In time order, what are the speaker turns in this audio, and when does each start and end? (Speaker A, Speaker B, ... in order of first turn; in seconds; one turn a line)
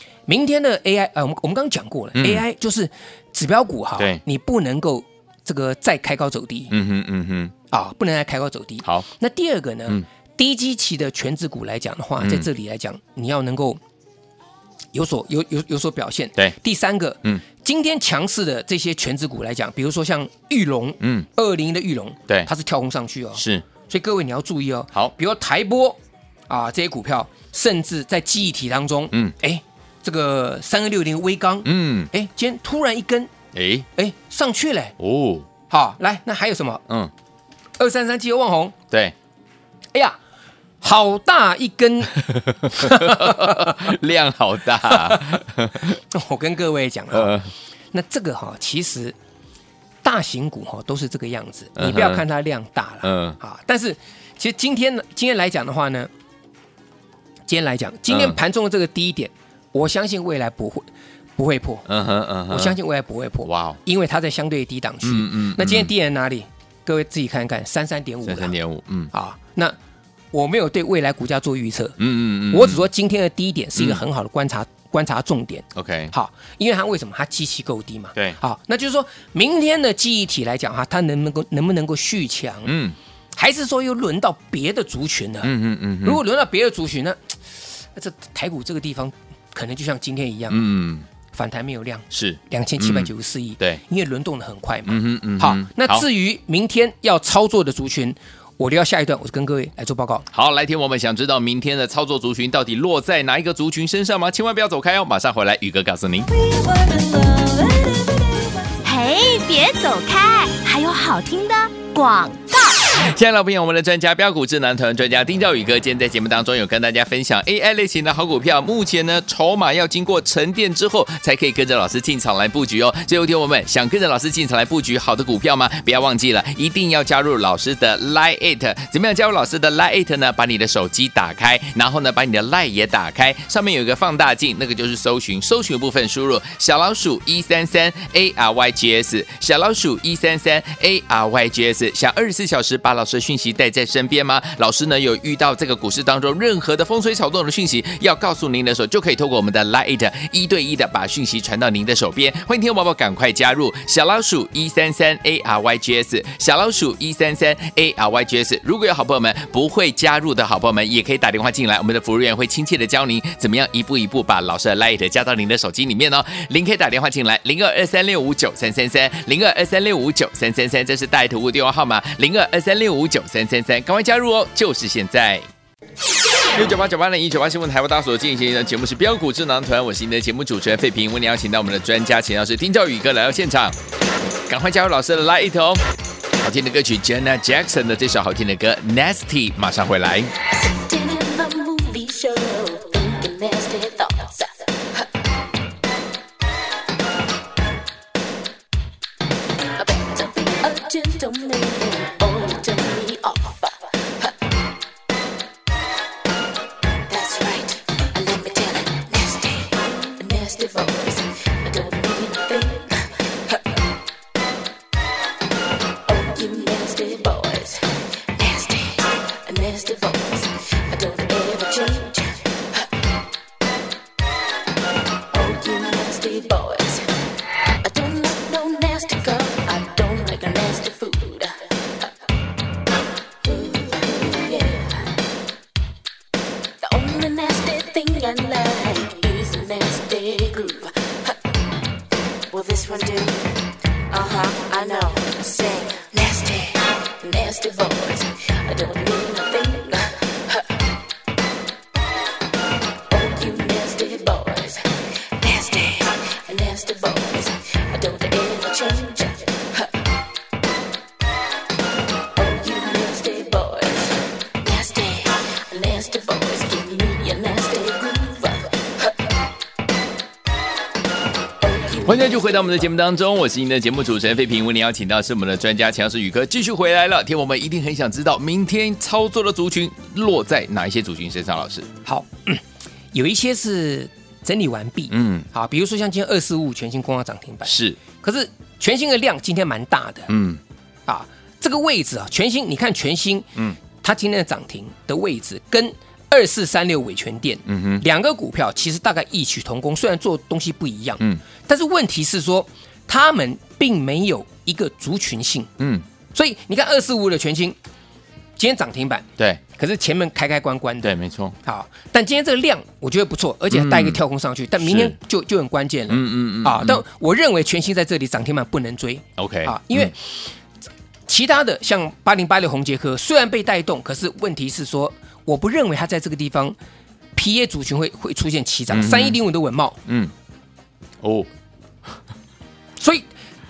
Speaker A: 0.3-6.7
Speaker B: 2.2-2.4
Speaker B: 6.7-7.5
Speaker A: 7.7-13.8
Speaker B: 12.2-12.5
Speaker A: 14.9-33.3
Speaker B: 21.0-21.3
Speaker B: 23.4-23.6
Speaker B: 31.6-32.1
Speaker B: 33.5-33.9
Speaker A: 34.0-34.9
Speaker B: 35.0-35.5
Speaker A: 35.7-36.8
Speaker A: 37.8-38.7
Speaker A: 40.8-43.9
Speaker B: 42.2-46.0
Speaker A: 44.9-45.4
Speaker A: 46.1-47.3
Speaker B: 47.1-47.5
Speaker A: 47.9-49.1
Speaker A: 50.0-56.1
Speaker B: 51.8-52.2
Speaker B: 53.0-53.4
Speaker A: 57.5-61.8
Speaker B: 58.1-58.4
Speaker B: 61.9-62.8
Speaker A: 62.5-68.5
Speaker B: 63.4-63.8
Speaker B: 65.0-65.9
Speaker B: 68.2-69.1
Speaker A: 69.1-69.8
Speaker A: 70.3-72.0
Speaker B: 72.0-72.8
Speaker A: 72.5-82.7
Speaker B: 75.7-76.1
Speaker B: 82.7-83.0
Speaker A: 83.3-85.5
Speaker B: 85.4-86.2
Speaker A: 86.0-90.6
Speaker B: 90.5-91.0
Speaker A: 91.3-100.2
Speaker B: 92.1-93.8
Speaker B: 94.9-96.0
Speaker B: 100.3-106.3
Speaker C: 106.3-112.9
Speaker B: 112.9-175.4
Speaker B: 176.5-183.8
Speaker B: 184.5-185.8
Speaker B: 186.4-190.3
Speaker D: 190.5-195.1
Speaker D: 199.8-204.4
Speaker D: 207.1-213.6
Speaker D: 216.0-222.8
Speaker D: 225.3-227.2
Speaker D: 227.8-232.1
Speaker D: 233.4-235.1
Speaker D: 236.8-241.4
Speaker D: 242.5-243.6
Speaker D: 244.1-250.7
Speaker D: 253.1-259.9
Speaker D: 262.4-269.1
Speaker D: 271.6-272.4
Speaker B: 272.0-281.9
Speaker A: 282.1-282.6
Speaker A: 283.1-290.3
Speaker B: 285.1-285.5
Speaker B: 287.6-288.0
Speaker B: 290.3-290.6
Speaker A: 291.1-305.7
Speaker B: 297.7-298.0
Speaker B: 305.8-306.0
Speaker A: 306.3-307.8
Speaker A: 308.6-320.5
Speaker B: 311.0-311.6
Speaker B: 313.7-314.2
Speaker B: 314.8-315.1
Speaker B: 316.1-317.0
Speaker B: 319.4-320.1
Speaker A: 321.3-326.8
Speaker A: 327.3-330.0
Speaker B: 328.9-329.4
Speaker B: 330.1-330.3
Speaker B: 331.2-331.5
Speaker A: 333.0-333.2